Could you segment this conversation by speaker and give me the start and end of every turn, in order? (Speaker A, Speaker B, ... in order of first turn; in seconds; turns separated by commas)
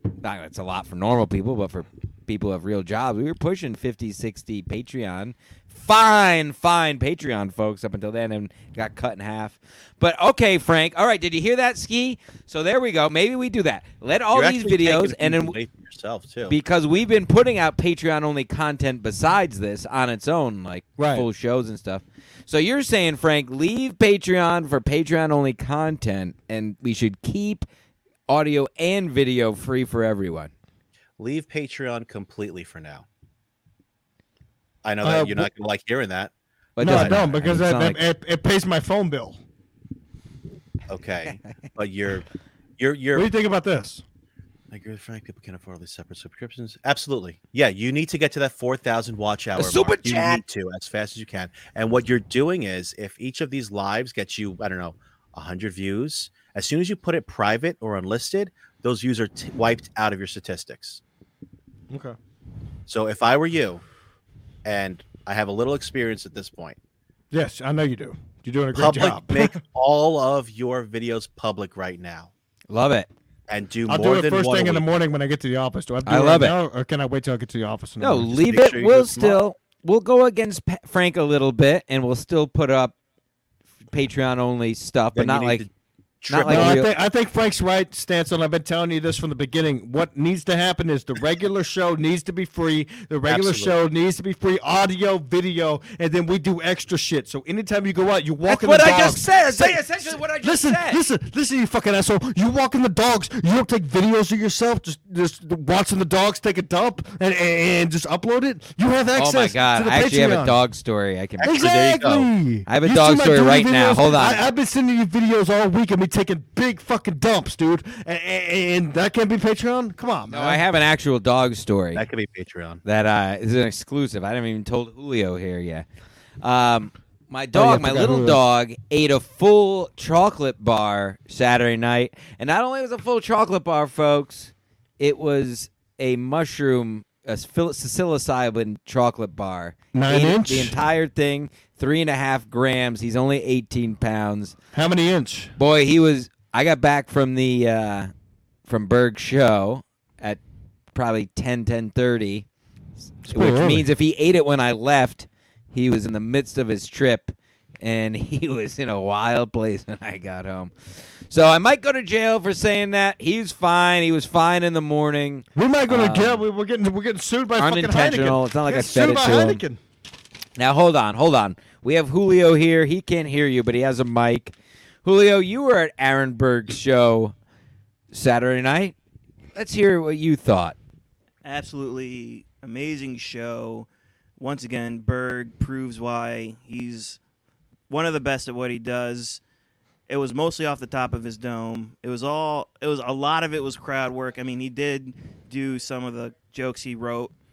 Speaker A: 0.2-15.6, Speaker B: 14.3-16.6, Speaker A: 16.5-27.6, Speaker C: 21.0-21.2, Speaker A: 28.3-30.5, Speaker B: 31.2-33.0, Speaker B: 34.8-37.2, Speaker C: 35.0-35.5, Speaker A: 36.8-38.0, Speaker C: 36.8-39.4, Speaker B: 40.9-42.2, Speaker B: 42.8-43.3, Speaker C: 43.1-44.0, Speaker B: 44.7-61.0, Speaker A: 49.5-50.4, Speaker C: 61.9-62.2, Speaker B: 62.9-63.8, Speaker B: 64.6-66.8, Speaker C: 67.3-69.6, Speaker B: 68.7-72.3, Speaker A: 72.7-73.1, Speaker B: 73.5-74.8, Speaker C: 73.9-78.3, Speaker A: 76.0-76.5, Speaker A: 78.0-82.9, Speaker B: 78.3-79.4, Speaker A: 83.9-85.7, Speaker B: 85.1-85.7, Speaker B: 86.2-86.8, Speaker A: 86.3-86.9, Speaker C: 86.5-110.6, Speaker B: 93.2-93.7, Speaker A: 98.5-101.0, Speaker A: 109.2-111.6, Speaker B: 111.4-112.3, Speaker C: 111.4-120.6, Speaker A: 112.7-114.5, Speaker A: 120.3-122.0, Speaker B: 121.9-122.8, Speaker A: 122.8-125.8, Speaker A: 126.4-144.5, Speaker C: 127.5-128.4, Speaker C: 139.9-140.8, Speaker C: 144.7-145.5, Speaker A: 145.6-148.1, Speaker A: 148.7-150.4, Speaker A: 150.9-152.4, Speaker C: 153.3-153.8, Speaker A: 153.3-160.7, Speaker A: 161.3-166.4, Speaker C: 165.5-169.8, Speaker A: 167.6-169.6, Speaker A: 170.6-177.3, Speaker A: 178.1-178.9, Speaker A: 179.5-180.8, Speaker D: 181.4-187.2, Speaker D: 187.9-189.4, Speaker D: 190.1-197.3